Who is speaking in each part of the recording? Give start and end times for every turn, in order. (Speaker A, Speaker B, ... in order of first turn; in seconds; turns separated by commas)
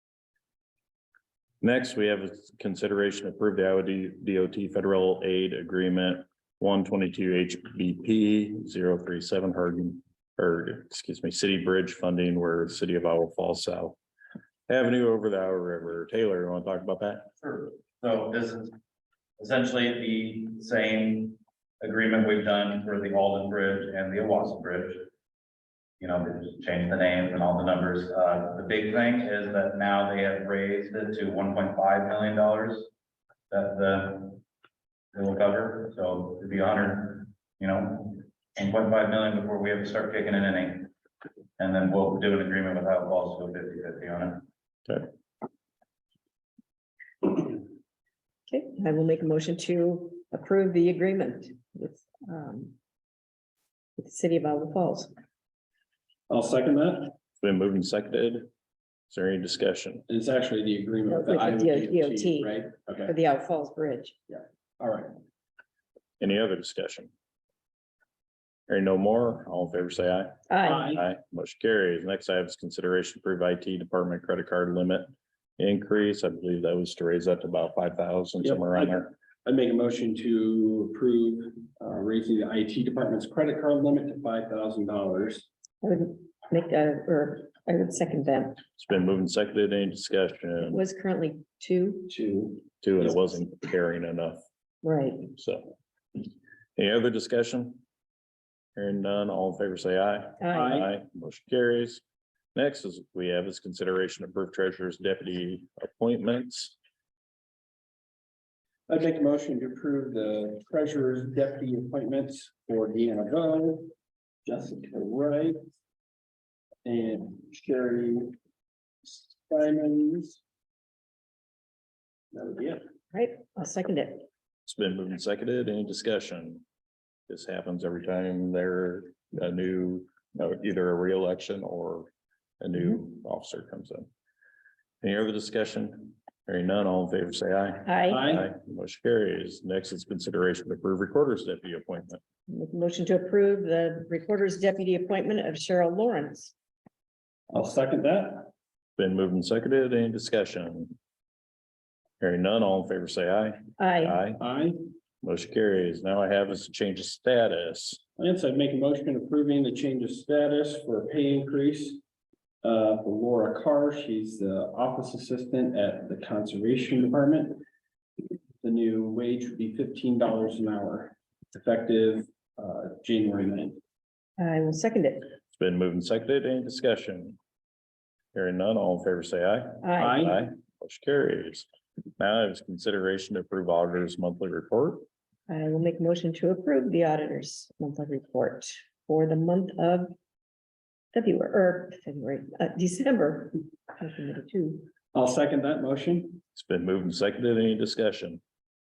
Speaker A: 1.6-14.0, Speaker A: 14.7-17.3, Speaker B: 17.4-18.7, Speaker B: 19.4-25.1, Speaker B: 26.0-32.9, Speaker B: 33.5-34.4, Speaker B: 35.1-40.9, Speaker B: 41.6-44.5, Speaker C: 48.5-52.7, Speaker C: 54.0-55.1, Speaker D: 56.3-57.1, Speaker A: 57.4-58.5, Speaker A: 59.1-60.0, Speaker D: 60.1-63.1, Speaker C: 61.1-62.5, Speaker C: 63.0-64.1, Speaker D: 64.3-65.1, Speaker A: 66.2-67.1, Speaker A: 68.7-79.1, Speaker C: 70.5-70.9, Speaker D: 70.6-71.0, Speaker D: 78.4-85.5, Speaker C: 85.8-88.6, Speaker A: 88.8-90.8, Speaker C: 90.7-92.1, Speaker D: 92.1-93.2, Speaker A: 92.8-94.4, Speaker C: 94.8-95.3, Speaker A: 95.3-95.7, Speaker A: 96.8-97.8, Speaker A: 98.8-102.0, Speaker C: 100.4-100.8, Speaker D: 100.5-100.9, Speaker A: 102.5-106.8, Speaker D: 108.9-113.9, Speaker D: 114.5-115.6, Speaker D: 116.8-118.3, Speaker D: 119.0-120.4, Speaker D: 122.3-122.8, Speaker C: 123.1-124.2, Speaker A: 124.7-126.6, Speaker A: 127.3-134.1, Speaker A: 135.0-142.2, Speaker C: 137.8-138.2, Speaker D: 138.1-138.5, Speaker C: 142.5-146.5, Speaker D: 147.5-148.5, Speaker A: 149.0-150.9, Speaker A: 152.2-154.4, Speaker C: 153.8-154.2, Speaker D: 154.4-154.8, Speaker A: 155.2-158.0, Speaker D: 158.2-162.0, Speaker D: 162.6-167.6, Speaker D: 168.6-173.8, Speaker C: 174.4-175.3, Speaker A: 175.6-177.4, Speaker A: 178.3-181.7, Speaker C: 179.8-180.2, Speaker D: 180.0-180.4, Speaker A: 182.2-185.1, Speaker C: 185.5-190.1, Speaker C: 191.1-194.9, Speaker D: 195.1-196.4, Speaker A: 196.6-198.4